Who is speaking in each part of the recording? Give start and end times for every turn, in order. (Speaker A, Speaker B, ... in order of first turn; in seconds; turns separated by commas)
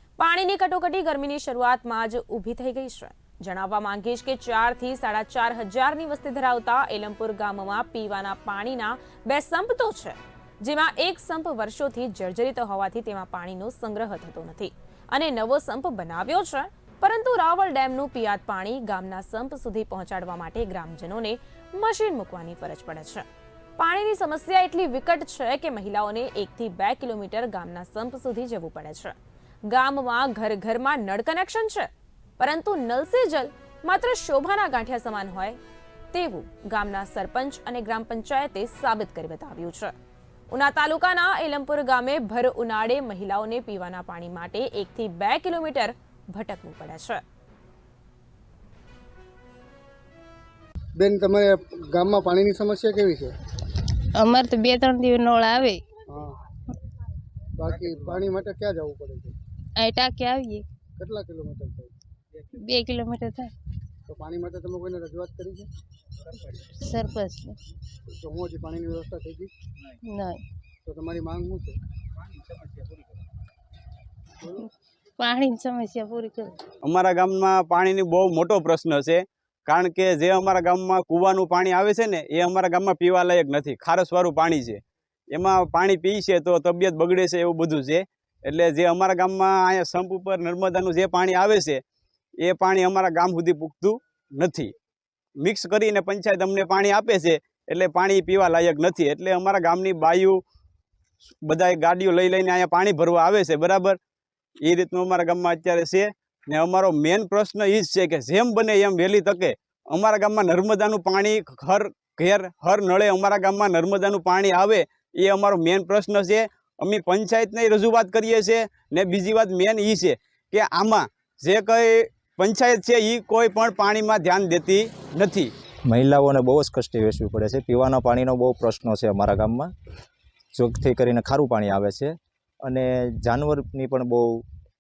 Speaker A: 0.2-23.2, Speaker A: 23.8-29.1, Speaker A: 29.7-35.6, Speaker A: 36.1-39.9, Speaker A: 40.5-47.2, Speaker B: 51.0-53.3, Speaker C: 54.1-55.8, Speaker B: 56.1-56.4, Speaker B: 57.5-59.3, Speaker C: 59.8-60.6, Speaker B: 61.0-61.9, Speaker C: 62.5-63.5, Speaker B: 64.1-65.7, Speaker C: 66.7-67.6, Speaker B: 68.2-69.5, Speaker C: 70.1-70.4, Speaker B: 70.8-71.8, Speaker C: 74.4-76.6, Speaker D: 76.8-84.8, Speaker D: 85.3-91.8, Speaker D: 92.4-94.7, Speaker D: 95.4-100.4, Speaker D: 101.4-104.0, Speaker D: 104.6-125.5, Speaker E: 125.9-129.7, Speaker E: 130.5-134.4